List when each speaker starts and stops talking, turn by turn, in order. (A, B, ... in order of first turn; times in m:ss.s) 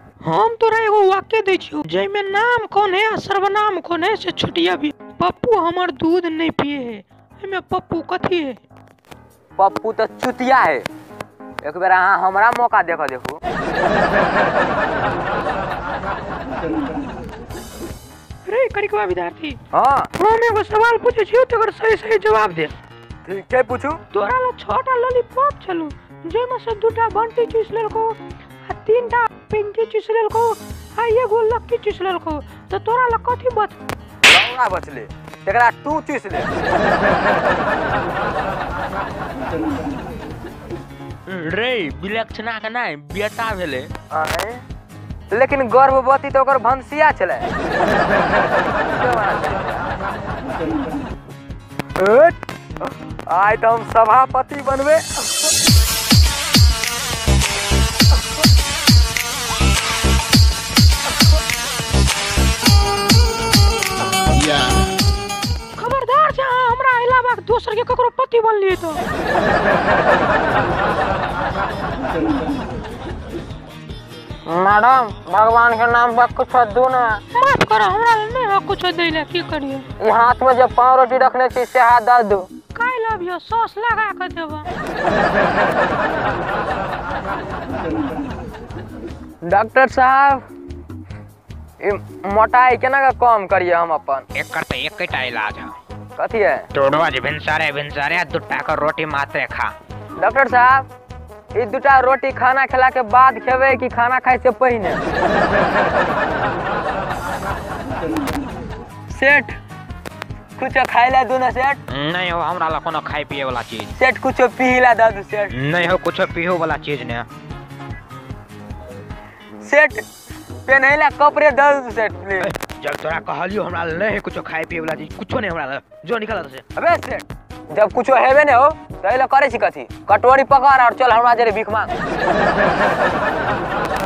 0:00.2-0:08.6 A
0:09.6-0:10.9 B
0:11.6-0:13.4 B
0:18.5-0:19.6 A
0:19.7-0:20.1 B
0:20.2-0:22.7 A
0:23.2-0:24.0 B
0:24.1-0:33.8 A
0:34.3-0:36.5 B
0:41.3-0:43.9 C
0:44.1-0:44.6 B
0:45.3-0:47.5 B
0:48.9-0:49.9 B
0:52.0-0:55.5 B
1:05.8-1:09.0 A
1:14.5-1:17.2 B
1:17.3-1:19.9 A
1:20.0-1:22.5 B
1:22.8-1:24.7 A
1:29.4-1:30.4 B
1:31.8-1:34.2 B
1:34.3-1:35.8 C
1:36.2-1:36.7 B
1:36.7-1:39.7 C
1:40.2-1:40.9 B
1:41.6-1:45.0 B
1:49.1-1:49.5 B
1:50.6-1:51.8 B
1:51.9-1:53.9 C
1:54.0-1:55.6 B
1:55.5-1:57.3 C
1:59.6-2:00.0 B
2:00.7-2:02.5 B
2:02.4-2:06.6 C
2:06.8-2:11.9 B